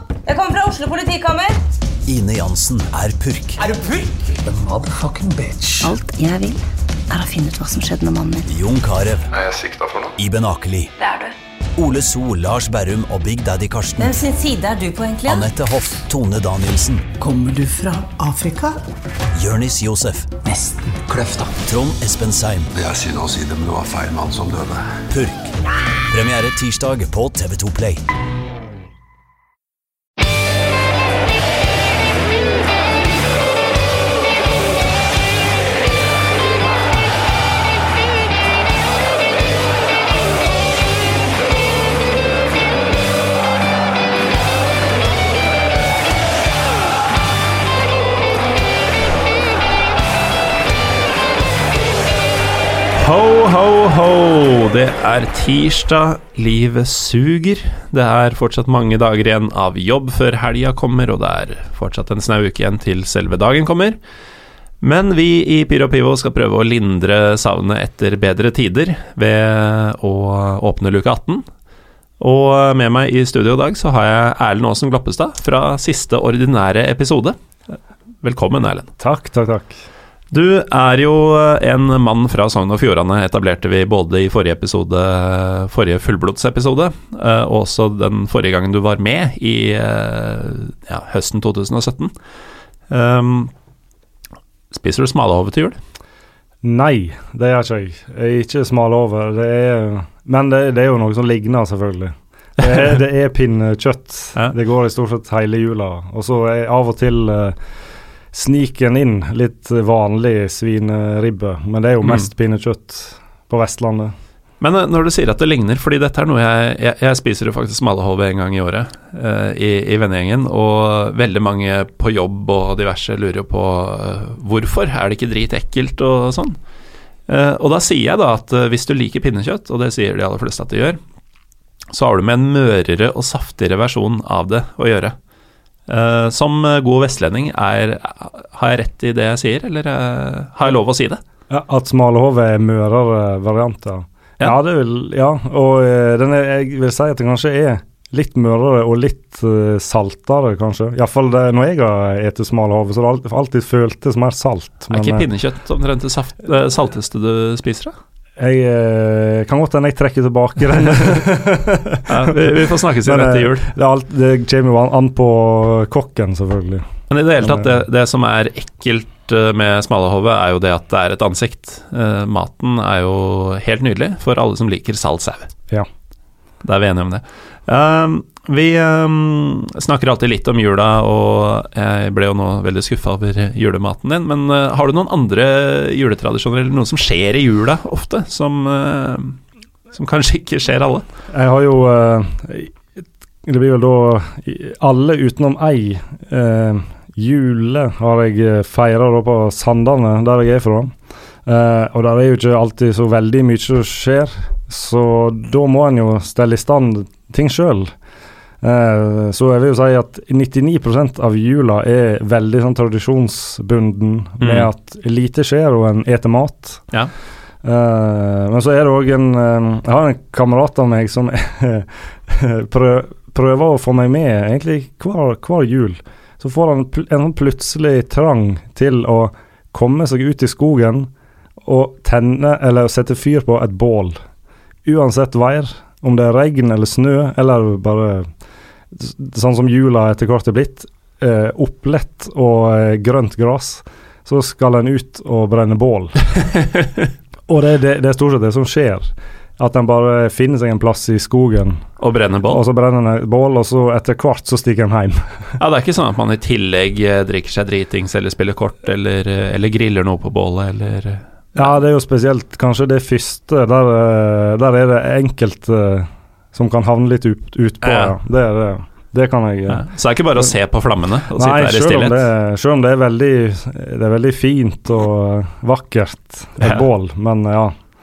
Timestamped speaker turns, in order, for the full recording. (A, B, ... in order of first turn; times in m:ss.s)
0:00.5-0:01.3 A
0:02.1-0:03.6 B
0:03.7-0:05.9 C
0:05.8-0:08.5 D
0:08.5-0:09.3 B
0:09.3-0:10.2 E
0:10.2-0:10.9 B
0:11.8-0:14.2 B
0:14.0-0:14.4 D
0:14.0-0:15.4 A
0:15.2-0:15.5 D
0:15.3-0:17.1 B
0:17.2-0:18.8 C
0:19.3-0:20.3 B
0:20.4-0:21.5 C
0:21.6-0:22.7 B
0:22.7-0:24.8 E
0:25.1-0:25.5 B
0:26.1-0:28.0 B
0:53.0-1:04.0 F
1:04.8-1:11.4 F
1:12.2-1:17.4 F
1:18.2-1:18.9 F
1:19.0-1:19.8 G
1:20.3-1:32.1 F
1:32.9-1:33.5 F
1:34.7-1:35.8 F
1:36.6-1:47.6 G
1:42.6-1:42.9 F
1:48.3-1:54.1 G
1:54.6-2:06.6 F
2:07.3-2:11.0 F
2:11.9-2:15.2 F
2:15.9-2:21.2 F
2:21.5-2:35.3 G
2:34.9-2:37.9 F
2:38.4-2:46.8 G
2:42.1-2:43.7 F
2:47.1-2:55.5 F
2:47.4-2:47.8 G
2:56.6-3:09.4 F
3:09.9-3:11.0 F
3:11.3-3:12.8 G
3:13.4-3:20.9 G
3:21.4-3:27.9 G
3:28.6-3:36.9 G
3:34.4-3:34.7 F
3:37.6-3:51.1 G
3:51.6-3:54.2 G
3:54.8-3:58.3 G
3:58.9-4:06.2 G
4:07.5-4:11.8 G
4:12.0-4:12.6 F
4:12.4-4:15.6 G
4:15.6-4:21.7 F
4:21.6-4:29.8 G
4:27.8-4:28.1 F
4:29.7-4:32.3 F
4:31.3-4:37.7 G